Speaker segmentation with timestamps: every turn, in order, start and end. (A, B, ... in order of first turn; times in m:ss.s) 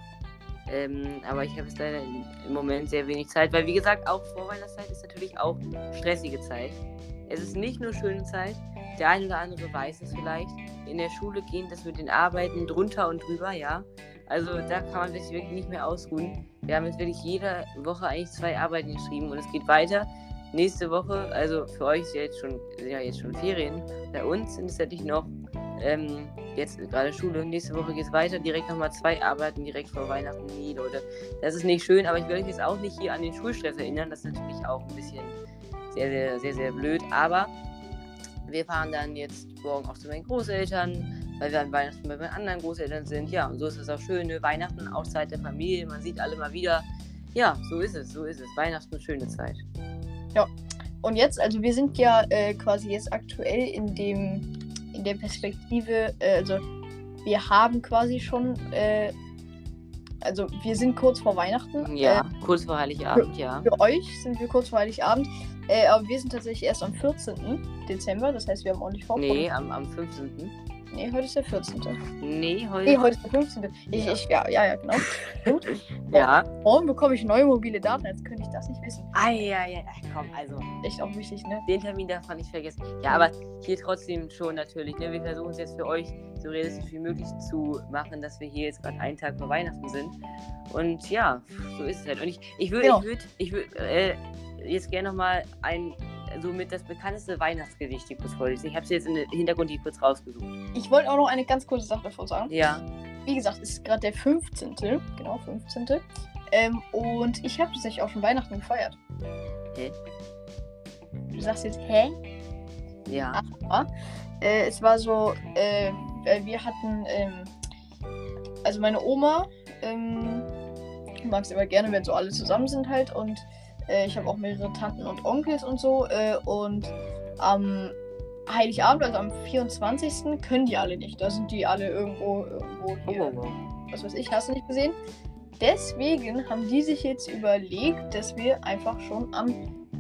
0:00.7-0:35.4 A
0:35.9-0:37.5 A
0:38.5-0:49.6 A
0:51.0-0:56.6 B
0:57.2-0:59.1 B
1:00.2-1:02.2 B
1:01.8-1:03.7 A
1:03.1-1:09.5 B
1:09.2-1:10.5 A
1:10.9-1:12.0 B
1:12.2-1:13.1 A
1:12.8-1:19.1 B
1:13.9-1:14.2 A
1:16.1-1:16.5 A
1:19.1-1:20.7 A
1:20.8-1:21.6 B
1:21.7-1:30.2 A
1:30.7-1:40.6 A
1:32.8-1:33.1 B
1:40.8-1:42.5 B
1:42.5-1:42.9 A
1:43.3-1:49.0 B
1:51.3-1:52.2 B
1:53.1-1:53.4 A
1:53.3-1:53.9 B
1:54.4-1:57.5 B
1:58.6-2:00.5 B
2:01.2-2:08.0 B
2:08.5-2:13.4 B
2:13.1-2:13.6 A
2:13.9-2:15.0 B
2:15.6-2:19.6 B